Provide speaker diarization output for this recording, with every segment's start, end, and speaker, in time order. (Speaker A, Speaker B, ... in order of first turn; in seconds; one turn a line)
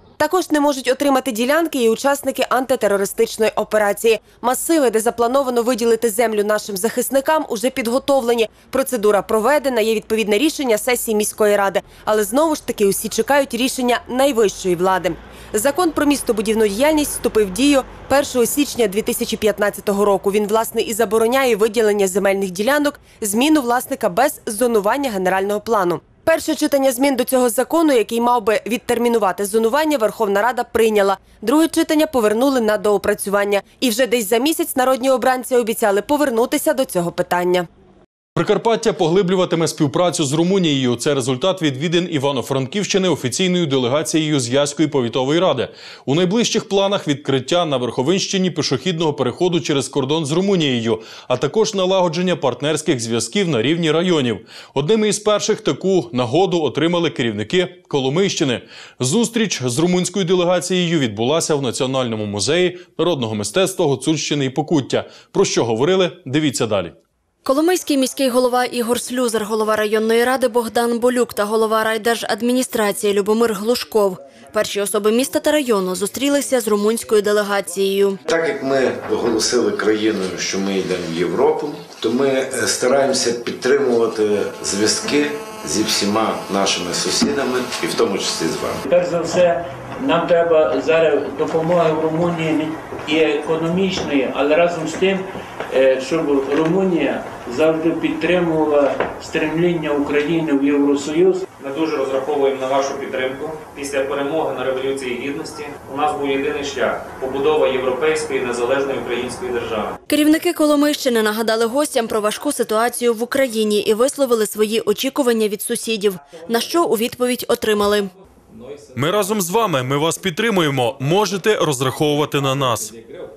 Speaker A: 0.2-37.7
Speaker B: 38.4-66.9
Speaker C: 67.4-78.2
Speaker D: 78.2-88.8
Speaker E: 88.8-101.5
Speaker F: 101.6-109.9
Speaker C: 110.1-118.1
Speaker B: 118.9-122.9